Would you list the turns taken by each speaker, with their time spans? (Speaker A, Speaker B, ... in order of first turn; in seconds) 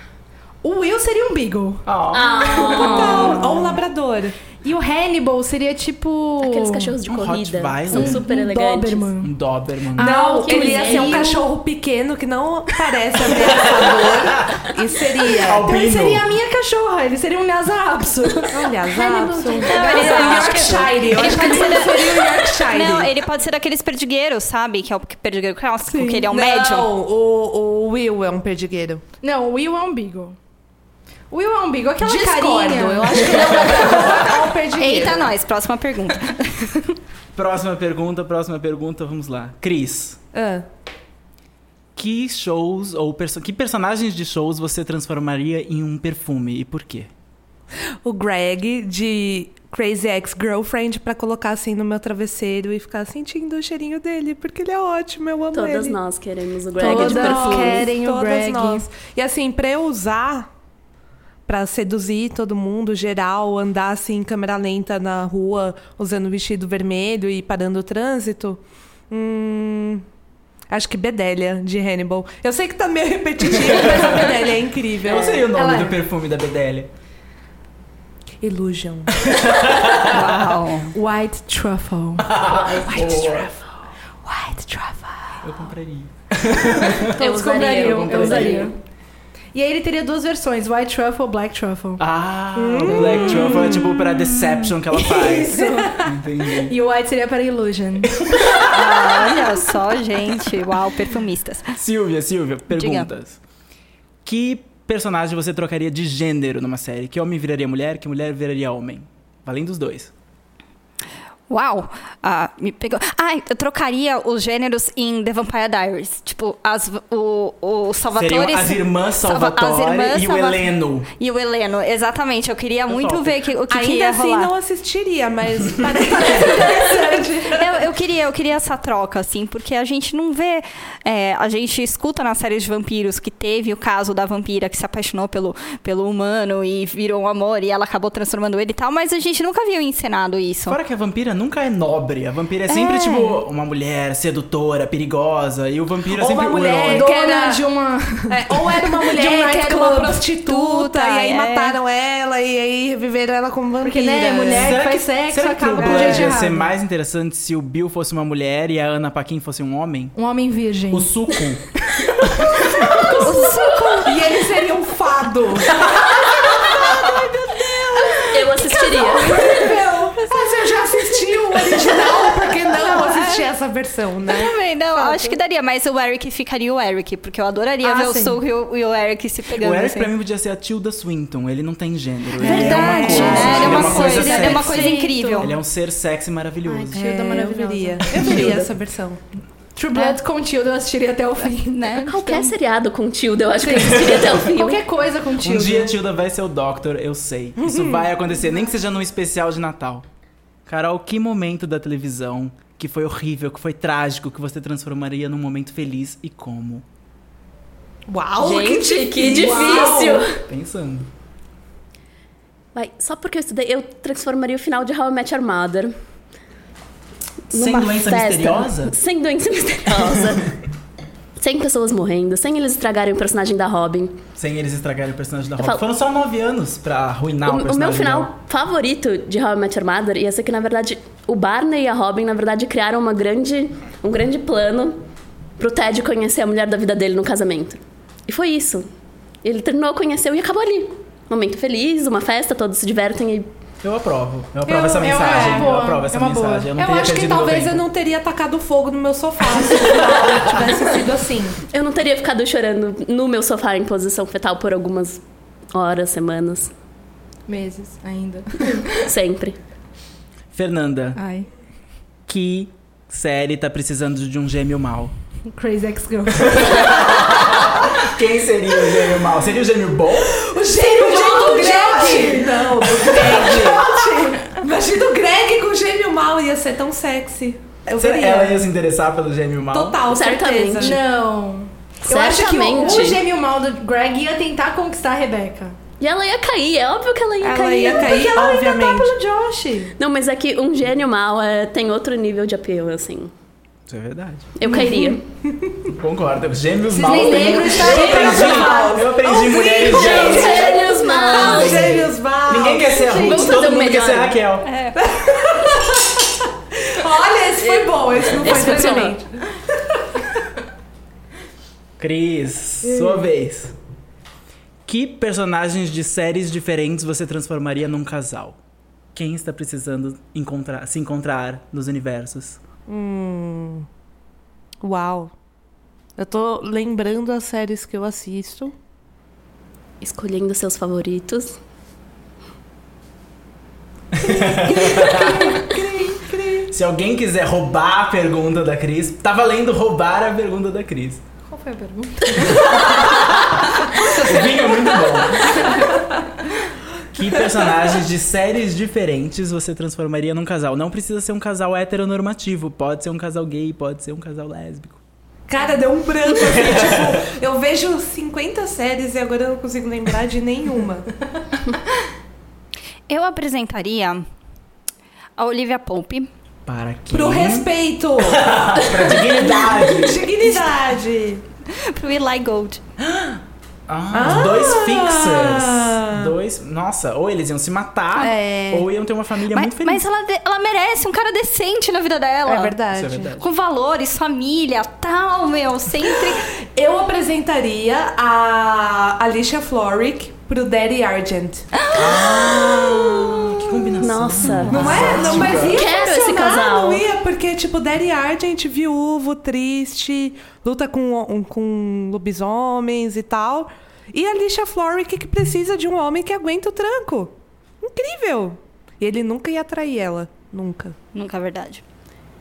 Speaker A: 0.6-1.8, 2.8-3.4, 4.6-7.0, 7.9-9.3, 10.0-11.5, 15.6-18.8, 20.4-20.8, 21.4-22.5, 25.9-26.2, 29.2-30.4, 31.3-34.5, 56.8-58.9, 75.5-76.0, 80.9-85.4, 87.2-88.8, 89.5-92.0, 95.0-98.1, 126.1-127.5, 146.9-150.3, 153.8-156.7, 160.2-161.1, 169.4-169.8, 172.8-173.3, 175.0-175.3, 177.8-178.4, 183.0-185.5, 186.7-188.4, 189.8-192.1, 193.7-196.0, 245.0-246.7, 257.5-258.9, 261.2-261.5, 265.5-266.9, 270.9-272.4, 280.8-285.8, 287.8-289.9, 296.9-299.0, 303.1-303.5, 341.5-342.8
Speaker B: 1.9-2.3, 7.0-8.2, 9.2-10.2, 13.6-14.2, 15.4-16.3, 37.3-40.2, 42.0-47.1, 73.5-74.3, 75.0-76.9, 79.3-80.3, 82.2-83.5, 85.4-87.1, 88.1-88.7, 92.0-96.8, 98.2-98.7, 101.7-103.4, 104.2-110.1, 118.1-121.1, 122.9-123.4, 140.7-147.1, 154.5-160.2, 160.9-161.7, 162.2-163.4, 179.6-187.0, 188.2-188.5, 193.8-194.3, 195.4-200.1, 200.7-206.8, 210.5-211.1, 217.5-218.9, 224.4-228.3, 243.8-247.8, 260.5-261.2, 262.3-265.1, 266.4-270.4, 271.5-273.9, 278.0-280.0, 293.9-294.5, 295.9-304.7, 312.0-313.8, 314.9-318.6, 319.1-322.6, 334.1-335.6, 336.7-341.2, 342.5-345.7, 347.1-355.0, 356.4-357.0, 366.7-370.3, 373.0-380.1, 382.9-383.5, 391.9-395.8
Speaker C: 2.1-3.5, 6.4-9.1, 10.4-11.3, 18.9-20.6, 55.5-57.9, 87.2-88.8, 168.3-169.5, 188.3-188.7, 192.1-194.8, 208.4-210.4, 212.8-215.9, 217.5-220.5, 221.4-224.2, 227.4-235.0, 235.6-238.9, 239.4-243.5, 251.7-255.2, 255.7-256.7, 259.0-259.6, 280.1-281.0, 282.1-283.2, 286.0-288.3, 290.0-293.3, 294.6-295.2, 299.2-302.0, 303.2-304.4, 307.6-309.2, 330.0-331.6, 394.0-397.0
Speaker D: 2.4-4.4, 10.0-15.7, 18.5-23.2, 26.3-29.0, 32.0-35.3, 40.3-40.6, 48.0-56.0, 56.8-60.5, 61.5-70.0, 70.7-75.5, 78.4-79.3, 92.5-93.6, 123.7-127.6, 146.2-147.7, 148.3-154.8, 155.9-156.3, 164.1-174.5, 182.4-184.4, 186.9-189.2, 197.6-198.1, 208.1-210.2, 244.7-245.8, 246.8-251.6, 270.3-278.6, 279.7-281.0, 287.4-289.8, 294.7-295.8, 297.6-303.3, 304.9-306.3, 306.9-309.4, 312.8-313.2, 322.9-323.9, 324.8-325.3, 326.2-328.7, 334.4-336.7, 345.6-345.9, 355.5-361.1, 367.1-371.4, 374.1-376.3, 378.2-378.9, 382.4-383.3, 386.7-391.7, 394.7-410.9
Speaker E: 3.3-3.8, 19.6-26.9, 33.4-37.0, 80.1-80.9, 93.0-94.8, 98.7-101.7, 102.7-103.1, 111.5-124.5, 126.4-126.9, 127.5-140.8, 142.7-143.4, 150.5-151.8, 163.2-164.3, 174.3-180.1, 182.4-185.5, 189.9-190.2, 191.5-192.5, 304.6-304.9, 363.1-364.2, 365.4-366.3, 371.9-372.8, 379.5-382.8, 383.4-386.5, 391.8-393.9, 394.4-395.4, 411.1-411.8